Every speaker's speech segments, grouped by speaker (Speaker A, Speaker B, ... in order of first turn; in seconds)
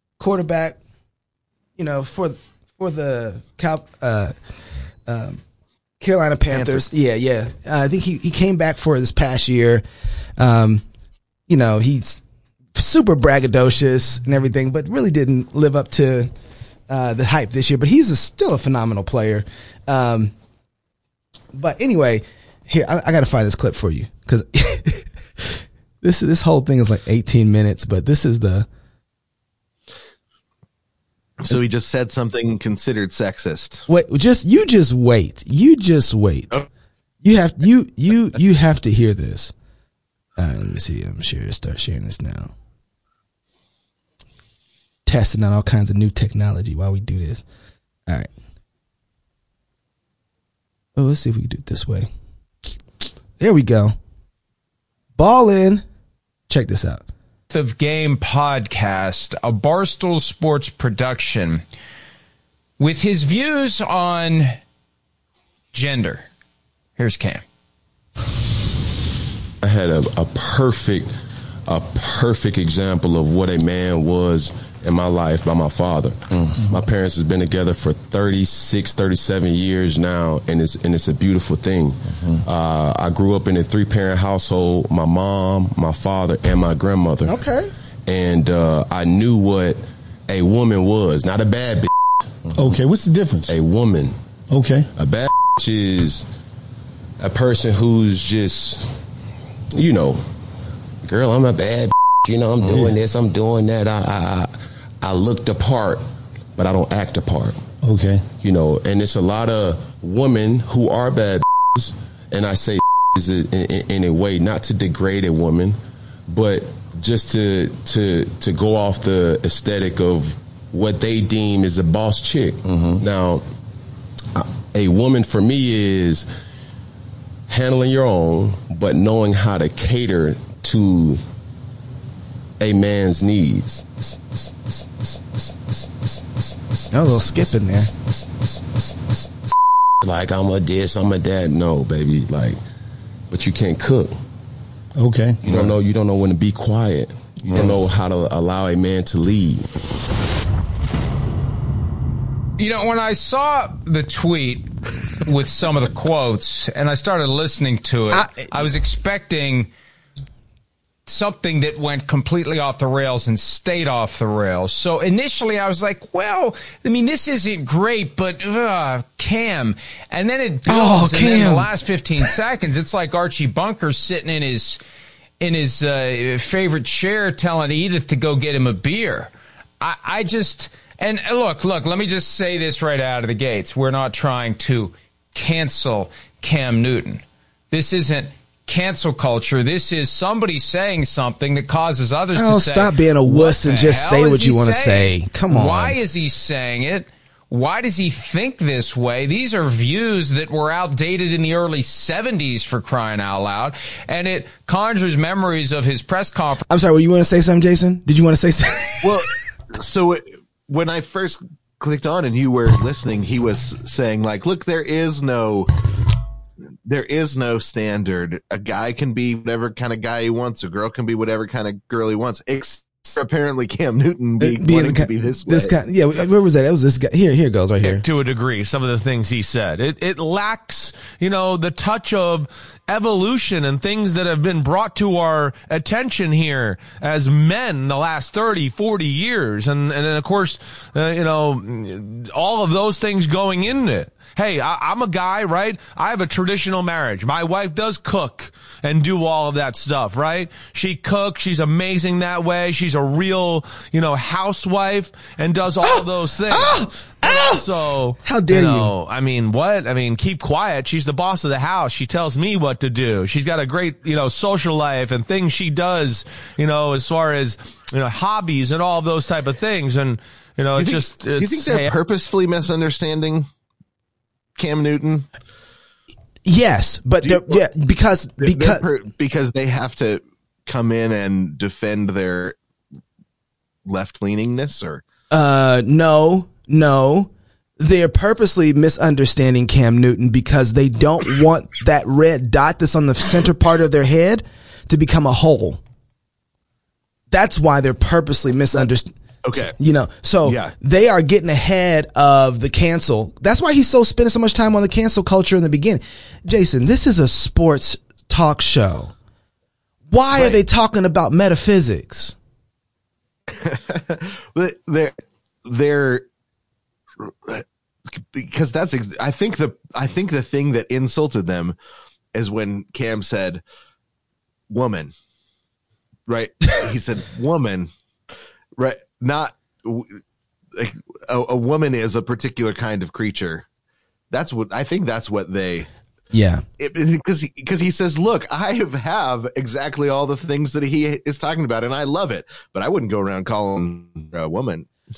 Speaker A: 0.2-0.8, 1.8-4.3, 5.0-5.4, 6.0-9.8, 10.4-10.8, 11.5-12.2, 12.7-16.3, 16.9-20.3, 21.5-28.7, 33.9-36.6, 37.2-39.5, 40.4-42.5, 45.0-47.4, 51.0-52.1, 53.4-54.0, 55.2-55.8, 56.5-57.0, 87.2-87.7, 136.9-137.9, 158.1-158.5, 170.7-171.7, 192.3-196.0, 206.7-209.2, 224.4-228.0, 255.8-258.9, 276.4-278.8, 285.3-295.8, 297.3-309.1, 310.1-312.4, 336.3-336.6
Speaker B: 6.5-6.8, 31.4-33.9, 209.0-215.7, 216.8-225.7, 270.8-273.5, 274.6-275.3, 277.2-277.6, 278.4-282.5, 283.9-285.0, 299.4-299.7, 300.4-300.7, 310.3-310.6, 313.6-315.1, 315.6-316.2, 317.2-321.8, 322.3-323.6, 324.7-325.1, 326.3-327.9, 328.8-330.2, 330.7-333.6, 334.3-335.9, 336.8-344.9
Speaker C: 57.5-61.6, 62.8-64.6, 65.7-66.2, 67.0-67.4, 152.6-159.7, 161.1-174.8, 175.4-206.6
Speaker D: 69.6-71.1, 71.7-87.4, 88.0-91.9, 93.5-94.2, 94.9-96.3, 97.2-99.0, 99.7-100.2, 101.0-106.0, 106.5-107.7, 108.3-115.8, 116.3-123.4, 124.3-126.3, 127.5-131.2, 132.6-139.3, 140.0-142.6, 143.3-144.2, 145.4-149.7
Speaker E: 92.5-93.5, 94.5-94.9, 102.6-102.9, 107.8-108.3, 144.9-145.7, 147.5-147.8
Speaker F: 227.8-271.9